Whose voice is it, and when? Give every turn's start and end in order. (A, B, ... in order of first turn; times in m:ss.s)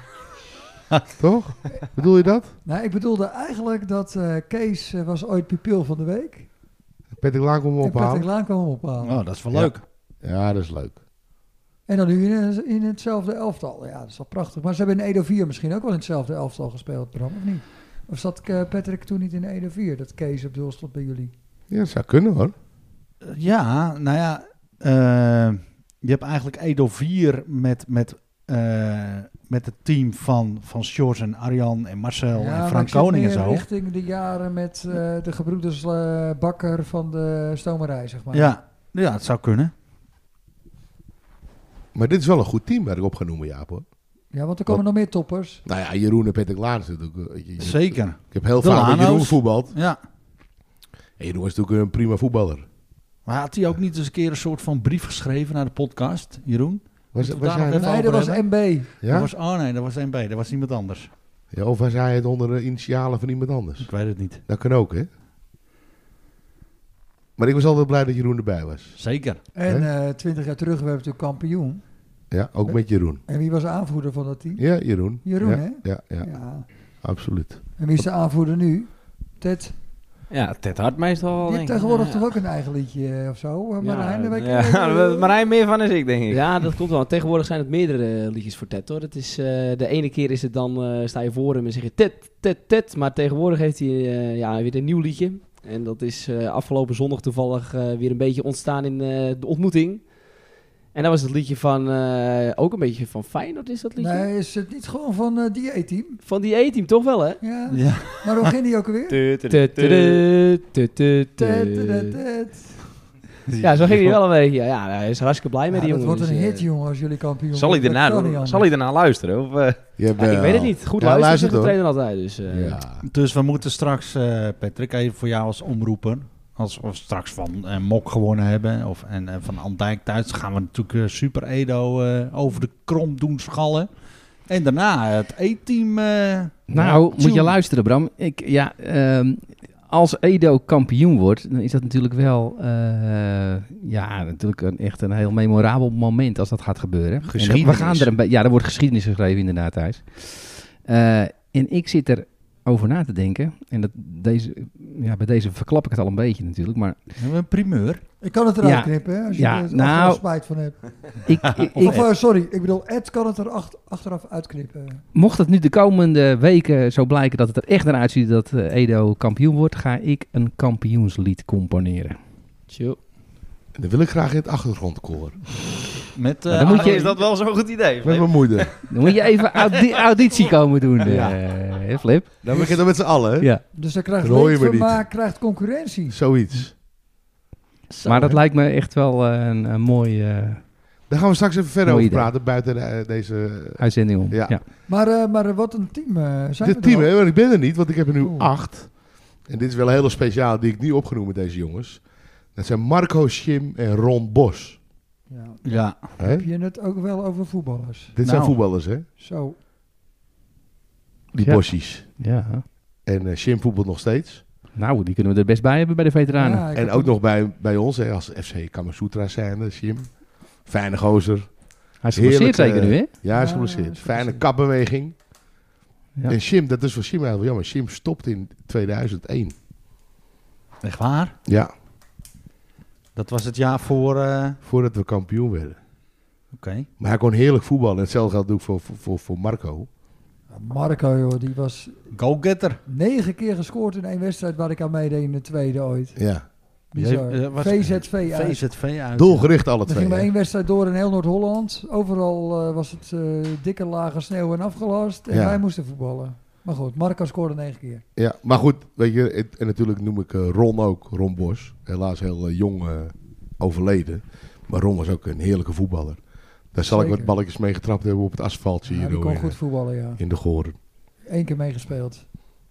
0:01.2-0:02.5 A
0:02.6-0:06.5 B
0:07.1-0:08.3 A
0:07.8-0:09.2 B
0:09.0-0:09.8 C
0:09.5-0:11.0 A
0:11.9-0:21.3 B
0:21.7-0:22.5 A
0:23.2-0:33.6 C
0:32.3-0:38.6 B
0:38.3-0:39.7 C
0:41.9-0:43.8 A
0:44.3-0:45.6 B
0:45.6-0:49.7 A
0:47.6-0:50.0 C
0:51.2-0:52.6 A
0:53.2-1:01.1 C
0:57.1-0:57.9 A
0:57.8-0:58.9 B
0:59.0-0:59.3 A
1:01.5-1:03.9 A
1:03.8-1:04.4 C
1:04.4-1:05.1 A
1:07.4-1:09.0 A
1:09.0-1:09.4 C
1:09.5-1:11.8 B
1:12.3-1:13.2 A
1:12.6-1:14.6 B
1:14.6-1:16.3 A
1:15.2-1:16.7 B
1:17.0-1:17.6 A
1:17.8-1:19.7 B
1:20.3-1:22.2 D
1:21.4-1:25.3 B
1:23.8-1:24.2 E
1:24.2-1:26.7 D
1:26.3-1:40.1 E
1:40.9-1:44.3 E
1:44.0-1:46.2 B
1:46.2-1:47.4 E
1:47.4-1:49.2 B
1:47.7-1:48.4 C
1:49.1-1:50.2 D
1:49.5-1:52.2 E
1:51.4-1:52.8 B
1:53.5-1:54.0 C
1:53.6-1:56.7 E
1:55.7-1:58.7 B
1:57.5-1:59.8 D
2:00.0-2:01.8 A
2:00.2-2:02.8 E
2:02.5-2:03.0 A
2:03.0-2:13.9 C
2:14.5-2:17.6 C
2:16.7-2:37.1 F
2:27.2-2:28.1 C
2:37.2-2:38.0 C
2:38.2-2:40.8 B
2:38.6-2:40.2 F
2:41.2-2:42.1 F
2:41.3-2:42.0 C
2:41.7-2:45.0 B
2:45.1-2:52.2 F
2:52.7-2:53.0 E
2:53.7-2:55.4 A
2:56.1-2:57.2 C
2:56.5-2:57.1 F
2:56.6-3:00.4 D
2:58.0-2:58.7 A
2:58.9-3:03.6 F
3:01.1-3:01.4 A
3:02.4-3:03.5 A
3:03.7-3:06.2 B
3:04.2-3:05.0 A
3:06.1-3:06.7 A
3:07.9-3:08.4 C
3:08.0-3:10.6 F
3:11.1-3:14.6 A
3:11.8-3:12.3 F
3:13.8-3:14.6 F
3:14.9-3:17.1 B
3:16.6-3:24.8 A
3:18.2-3:18.5 B
3:25.3-3:28.2 B
3:25.6-3:26.0 C
3:26.2-3:26.5 A
3:28.1-3:29.0 A
3:28.2-3:28.6 C
3:29.2-3:29.6 B
3:31.3-3:32.2 A
3:31.3-3:32.6 F
3:33.0-3:34.4 A
3:34.8-3:36.7 F
3:36.3-3:37.2 B
3:36.7-3:41.6 A
3:42.0-3:43.1 F
3:42.1-3:45.2 A
3:43.3-3:44.4 B
3:46.3-3:49.5 A
3:50.8-3:51.4 C
3:51.4-3:51.7 A
3:53.1-3:54.6 C
3:54.6-3:55.8 A
3:56.5-3:56.9 C
3:57.0-3:59.9 A
4:00.5-4:02.0 B
4:02.1-4:02.8 C
4:02.9-4:06.2 B
4:06.2-4:06.4 A
4:06.9-4:08.6 B
4:07.0-4:09.6 C
4:09.1-4:10.3 A
4:09.8-4:18.0 B
4:15.3-4:15.6 A
4:18.2-4:29.6 A
4:26.8-4:27.3 B
4:28.8-4:30.2 B
4:30.2-4:30.8 A
4:31.3-4:32.2 B